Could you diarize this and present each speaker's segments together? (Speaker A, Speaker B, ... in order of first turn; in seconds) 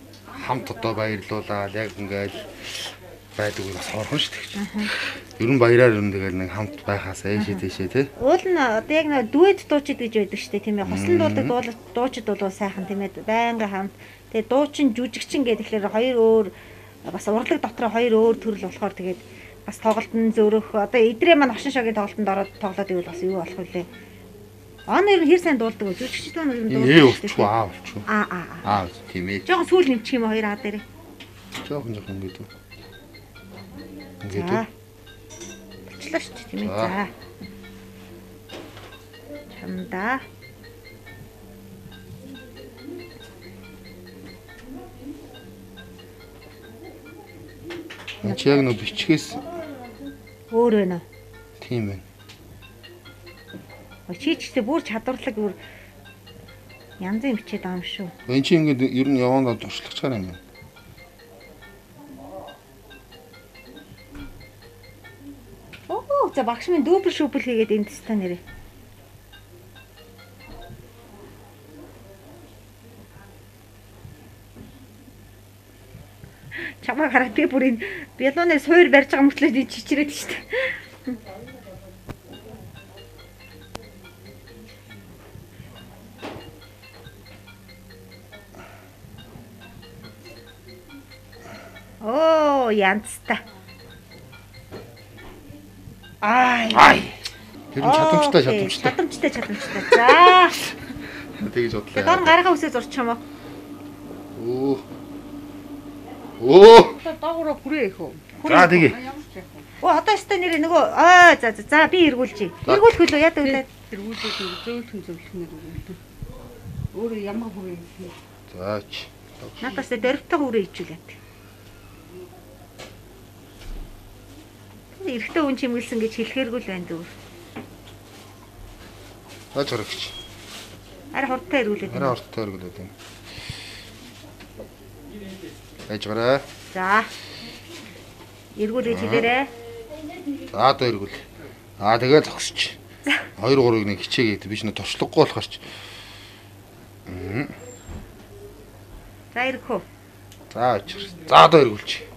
Speaker A: 0.3-8.1, 10.8-11.5, 26.7-28.1, 28.6-29.5, 31.5-32.5, 34.2-34.6, 36.6-36.9, 48.2-49.4, 51.6-52.0, 58.2-60.4, 96.7-97.2, 97.7-99.0, 99.9-100.3, 101.4-102.3, 104.3-104.8, 106.4-107.0, 108.4-109.0, 112.7-112.9, 118.5-119.7, 129.5-130.2, 131.9-132.9, 135.9-136.4, 138.8-139.3, 140.5-141.2, 141.8-142.8, 143.4-145.7, 147.1-147.5, 150.5-152.0
Speaker B: 4.5-4.9, 7.4-7.6, 8.2-16.5, 17.1-23.9, 24.9-27.5, 28.1-28.7, 29.4-30.8, 34.3-34.7, 35.9-37.1, 39.6-40.2, 50.5-51.0, 54.1-55.6, 57.0-58.1, 65.9-68.4, 76.8-80.7, 92.0-93.4, 96.2-97.0, 97.8-100.7, 102.0-103.2, 108.4-108.9, 109.8-113.7, 119.6-121.2, 125.0-127.1, 131.1-132.1, 136.7-137.1, 138.6-139.5, 149.3-149.8
Speaker C: 107.0-108.2, 108.7-109.6, 113.7-116.0, 116.9-118.1